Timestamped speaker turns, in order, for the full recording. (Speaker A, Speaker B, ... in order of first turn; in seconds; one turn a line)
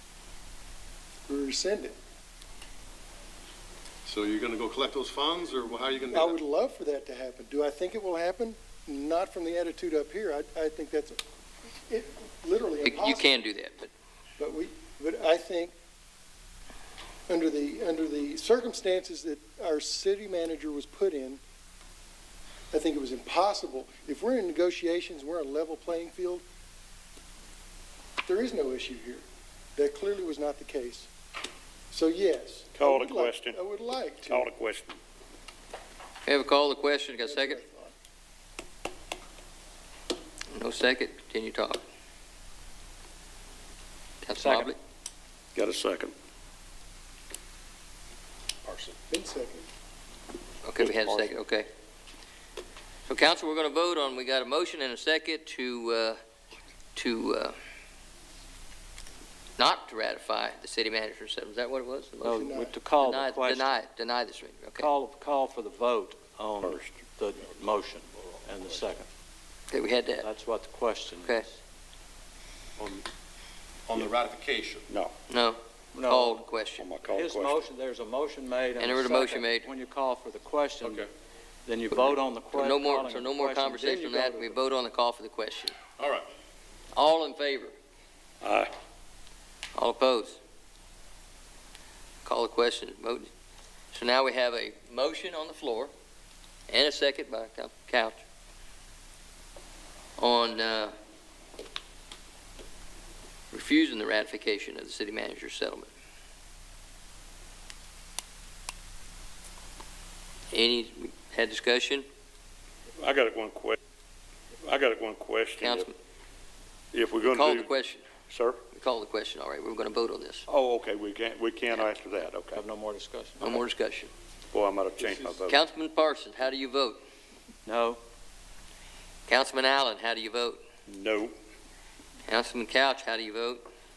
Speaker A: 1.3-1.9
Speaker B: 4.1-6.4
Speaker A: 6.1-11.2
Speaker A: 11.9-13.4
Speaker C: 12.8-13.9
Speaker A: 14.4-15.7
Speaker A: 17.3-21.4
Speaker A: 22.7-26.4
Speaker A: 28.3-29.2
Speaker A: 29.8-31.1
Speaker A: 31.9-34.5
Speaker D: 32.8-33.6
Speaker D: 34.2-35.0
Speaker C: 36.3-37.6
Speaker A: 37.2-37.9
Speaker C: 40.5-41.8
Speaker C: 44.2-44.8
Speaker E: 44.4-44.7
Speaker D: 45.5-46.1
Speaker B: 48.6-49.0
Speaker A: 49.1-49.6
Speaker C: 50.6-51.7
Speaker D: 50.8-51.4
Speaker C: 53.1-56.2
Speaker C: 57.0-57.6
Speaker C: 59.6-62.4
Speaker E: 62.2-63.8
Speaker A: 62.3-62.7
Speaker C: 63.0-64.9
Speaker E: 64.8-69.1
Speaker D: 66.6-66.9
Speaker C: 69.7-70.3
Speaker E: 70.2-71.6
Speaker B: 72.8-73.0
Speaker B: 73.9-74.8
Speaker C: 75.3-76.8
Speaker E: 75.9-76.5
Speaker D: 76.8-77.6
Speaker E: 77.1-81.1
Speaker C: 78.8-79.7
Speaker B: 80.8-81.1
Speaker E: 81.7-84.6
Speaker C: 82.5-85.8
Speaker B: 86.0-86.3
Speaker C: 86.9-87.8
Speaker D: 88.4-88.7
Speaker C: 89.8-90.4
Speaker C: 92.2-93.3
Speaker C: 93.9-95.9
Speaker C: 96.7-98.2
Speaker C: 100.2-100.9
Speaker C: 103.5-105.9
Speaker C: 110.5-112.0
Speaker D: 113.0-113.8
Speaker D: 114.6-115.9
Speaker C: 115.6-115.9
Speaker D: 116.9-117.7
Speaker C: 117.2-118.0
Speaker D: 118.3-118.6
Speaker C: 118.7-120.5
Speaker D: 120.5-122.6
Speaker E: 122.5-123.6
Speaker C: 123.4-124.1
Speaker D: 124.5-125.6
Speaker B: 125.0-125.3
Speaker C: 125.5-127.0
Speaker E: 127.7-128.0
Speaker C: 129.3-130.6
Speaker D: 130.9-131.3
Speaker C: 132.3-133.7